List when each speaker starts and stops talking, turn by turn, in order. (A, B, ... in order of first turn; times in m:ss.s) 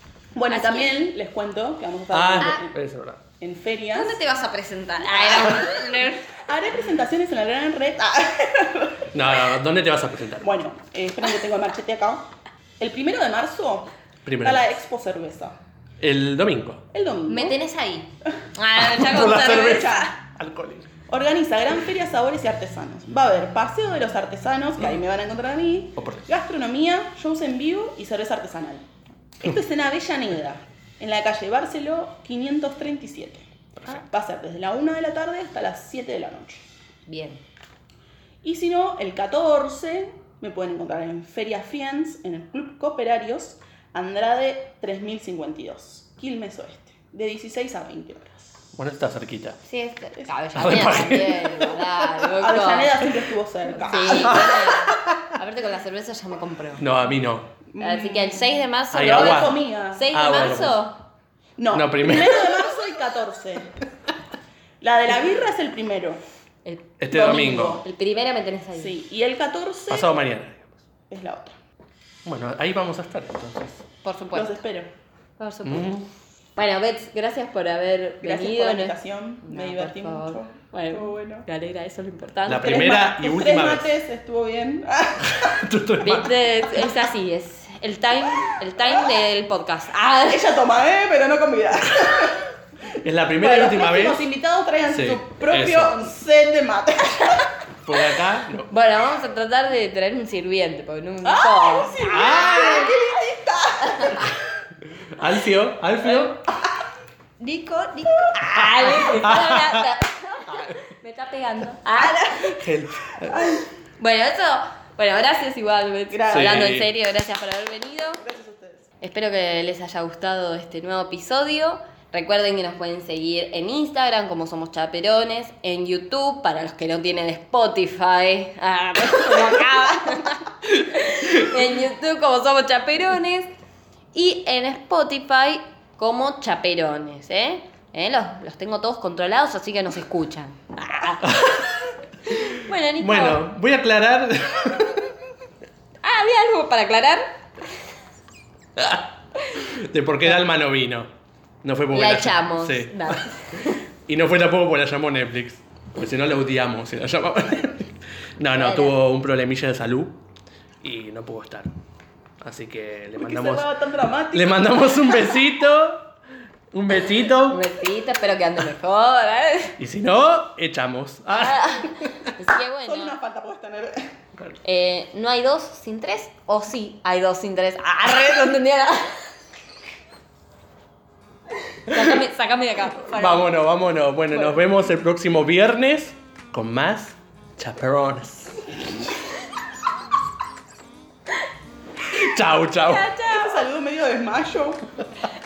0:00.4-0:02.7 A
0:00.5-0:01.0 B
0:02.1-0:03.2 C
0:03.4-0:04.2 A
0:03.9-0:06.4 B
0:05.0-0:09.6 A
0:09.1-0:10.5 C
0:10.4-0:12.3 A
0:12.8-0:13.9 A
0:14.3-0:14.8 C
0:14.4-0:15.6 A
0:16.0-0:16.8 C
0:16.9-0:17.6 A
0:17.3-0:20.1 B
0:18.8-0:20.9 C
0:19.1-0:20.1 A
0:21.1-0:28.9 A
0:26.0-0:26.3 C
0:29.4-0:33.5 A
0:34.0-0:36.7 A
0:37.1-0:37.4 B
0:38.4-0:48.7 A
0:48.7-0:49.6 C
0:49.6-0:53.0 B
0:50.6-0:51.8 C
0:52.4-0:54.4 A
0:53.9-0:56.8 B
0:54.1-0:55.3 C
0:56.8-0:57.5 C
0:57.7-1:00.3 A
0:57.8-1:01.0 B
0:58.9-0:59.6 C
1:00.1-1:00.8 C
1:01.6-1:03.8 A
1:01.7-1:02.5 C
1:04.8-1:06.2 A
1:06.6-1:09.0 B
1:07.0-1:07.8 C
1:07.1-1:07.8 A
1:08.7-1:10.1 A
1:09.9-1:10.8 C
1:11.1-1:11.6 A
1:12.2-1:13.8 C
1:14.0-1:14.6 B
1:14.3-1:14.9 A
1:15.4-1:16.0 B
1:15.6-1:16.1 C
1:16.6-1:22.8 B
1:18.2-1:21.5 A
1:22.5-1:24.0 C
1:22.5-1:25.7 A
1:25.2-1:26.4 C
1:26.0-1:30.6 B
1:28.8-1:29.2 A
1:30.3-1:32.5 A
1:33.0-1:34.2 C
1:33.4-1:37.5 A
1:34.9-1:36.1 C
1:37.8-1:38.7 C
1:38.7-1:42.9 B
1:41.2-1:44.4 A
1:42.1-1:43.0 C
1:43.9-1:44.3 B
1:45.1-1:46.4 C
1:47.4-1:52.6 B
1:48.5-1:49.9 C
1:50.5-1:50.8 C
1:52.4-1:53.7 C
1:53.3-1:53.6 A
1:54.0-1:58.2 B
1:56.1-1:56.8 A
1:56.3-1:56.9 C
1:58.2-1:58.9 A
1:59.0-2:13.5 B
2:14.1-2:21.7 B
2:21.2-2:21.8 C
2:22.3-2:23.4 B
2:23.0-2:25.1 C
2:26.0-2:27.3 B
2:28.8-2:31.1 C
2:31.6-2:40.2 C
2:31.9-2:33.8 B
2:38.5-2:39.0 B
2:40.8-2:41.7 C
2:42.4-2:43.7 C
2:43.2-2:45.2 A
2:44.3-2:46.1 C
2:46.7-2:47.6 C
2:47.5-2:49.8 B
2:49.8-2:52.3 C
2:51.4-2:53.2 B
2:52.8-2:54.1 A
2:54.6-2:59.2 B
3:01.9-3:03.6 B
3:01.9-3:02.2 C
3:03.0-3:08.7 C
3:12.0-3:13.2 C
3:12.9-3:13.6 B
3:13.2-3:14.8 A